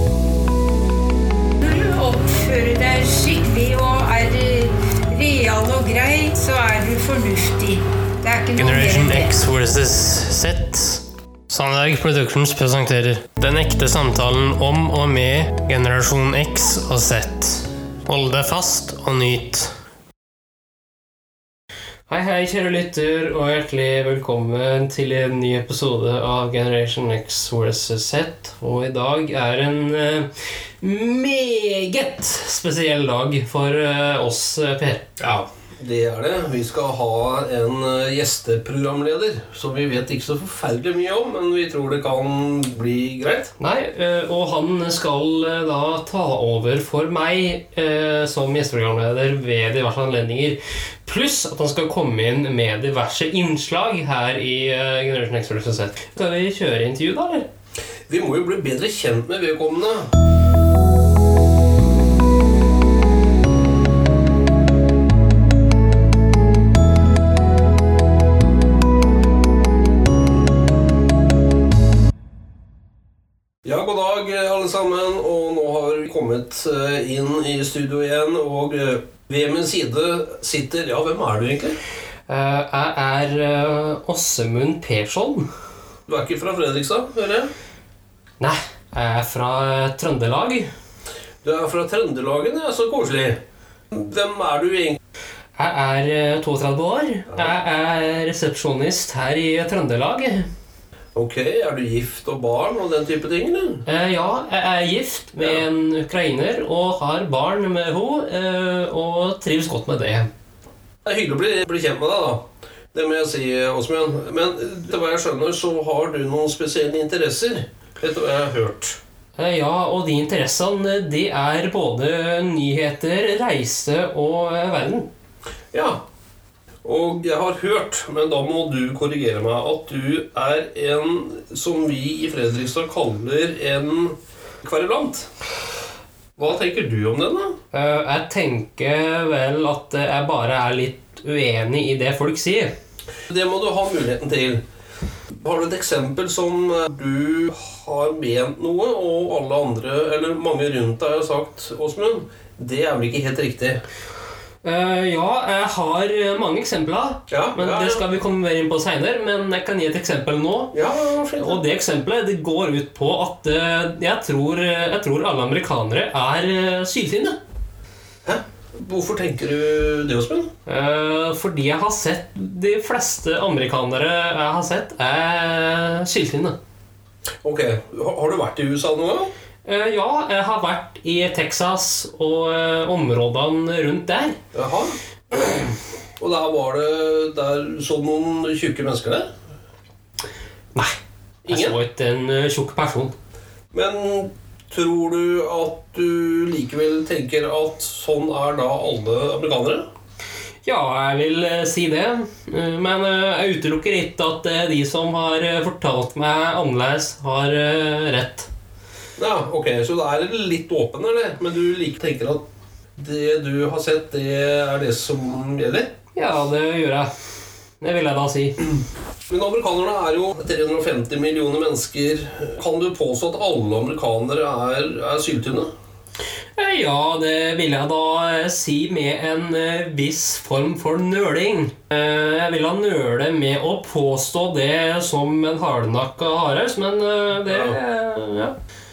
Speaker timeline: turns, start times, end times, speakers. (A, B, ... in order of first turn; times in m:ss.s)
0:01.6-0:09.4 A
0:08.6-0:19.7 B
0:22.1-0:30.3 B
0:30.8-0:35.1 B
0:35.2-0:43.5 C
0:43.6-0:57.5 B
0:58.1-1:00.1 C
1:13.6-1:21.8 C
1:22.3-1:25.5 B
1:26.1-1:27.5 C
1:28.4-1:30.7 B
1:31.4-1:33.4 C
1:33.9-1:35.0 C
1:35.6-1:40.5 B
1:41.2-1:43.8 C
1:43.9-1:50.3 B
1:51.0-1:59.0 C
1:59.4-2:05.1 B
2:05.7-2:06.0 C
2:06.8-2:15.3 C
2:16.4-2:17.6 C
2:17.7-2:22.7 B
2:23.3-2:24.6 C
2:25.4-2:33.8 C
2:34.6-2:40.8 B
2:37.3-2:38.0 C
2:40.7-2:41.6 C
2:41.4-2:47.4 B
2:48.2-2:50.5 C
2:50.7-2:56.6 B
2:57.4-2:59.3 C
2:59.6-3:04.4 B
3:04.5-3:09.3 C
3:10.7-3:13.1 B
3:11.5-3:11.8 C
3:13.7-3:19.8 C
3:20.6-3:28.5 B
3:29.2-3:32.4 C
3:33.0-3:35.9 C
3:36.2-3:37.1 B
3:37.8-3:38.7 B
3:39.3-3:45.7 C
3:46.6-3:58.5 B
3:57.4-3:57.8 C